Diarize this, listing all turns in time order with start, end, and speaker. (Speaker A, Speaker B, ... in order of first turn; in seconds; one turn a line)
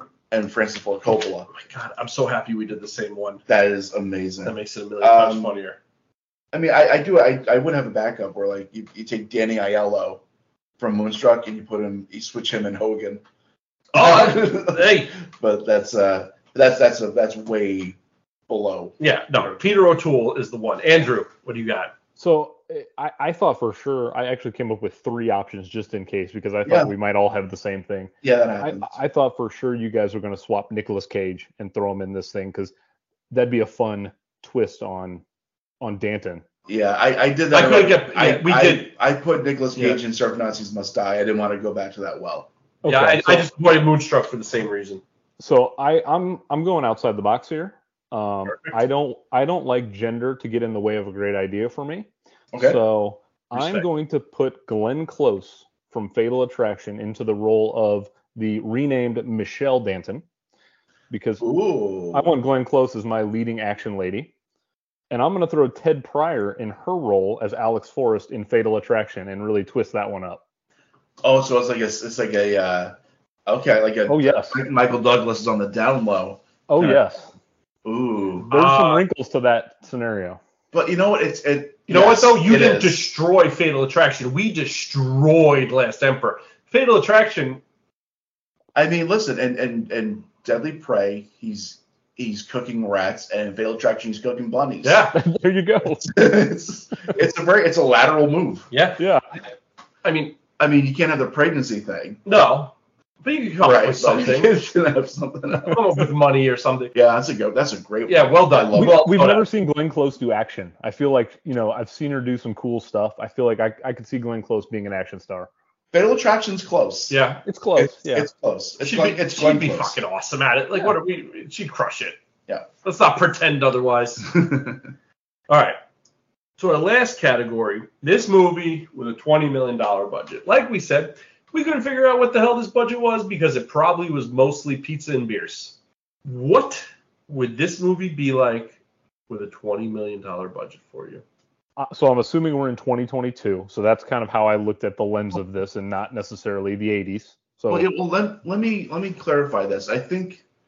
Speaker A: 0.3-1.5
Speaker B: 1.5-3.4
Speaker A: 3.5-5.5
Speaker B: 4.5-5.8
Speaker A: 6.5-10.2
Speaker A: 10.8-13.2
Speaker B: 13.9-15.1
Speaker A: 13.9-18.0
Speaker A: 18.5-19.0
Speaker B: 19.0-21.9
Speaker C: 22.2-32.7
Speaker A: 26.6-26.9
Speaker A: 28.2-28.9
Speaker C: 33.3-35.2
Speaker C: 35.8-36.4
Speaker A: 36.7-42.5
Speaker B: 37.5-38.9
Speaker C: 42.8-43.5
Speaker B: 42.9-45.0
Speaker C: 45.4-52.1
Speaker B: 48.5-48.8
Speaker A: 52.5-52.8
Speaker C: 52.6-60.2
Speaker B: 53.5-53.9
Speaker C: 61.1-61.4
Speaker A: 61.4-62.3
Speaker C: 62.1-64.3
Speaker C: 65.1-70.4
Speaker A: 71.2-72.9
Speaker A: 73.5-77.0
Speaker C: 74.1-74.6
Speaker C: 76.7-77.3
Speaker A: 77.8-78.5
Speaker B: 78.5-79.0
Speaker C: 78.5-80.4
Speaker A: 80.7-83.0
Speaker B: 81.9-87.6
Speaker A: 88.8-95.1
Speaker B: 94.8-95.2
Speaker C: 95.1-96.4
Speaker A: 96.0-98.7
Speaker B: 98.7-99.0
Speaker C: 99.0-99.2
Speaker B: 100.0-100.4
Speaker A: 100.6-102.2
Speaker B: 102.2-104.6
Speaker A: 103.6-105.8
Speaker B: 105.7-107.0
Speaker A: 106.9-109.1
Speaker B: 108.1-109.5
Speaker C: 108.7-115.5
Speaker A: 115.9-117.2
Speaker B: 117.1-117.4
Speaker C: 117.4-118.3
Speaker A: 117.8-120.0
Speaker B: 118.8-122.2
Speaker B: 122.8-124.3
Speaker A: 124.3-124.8
Speaker B: 125.5-125.8
Speaker B: 126.6-138.8
Speaker B: 139.3-141.2
Speaker C: 141.8-147.9
Speaker A: 147.7-150.4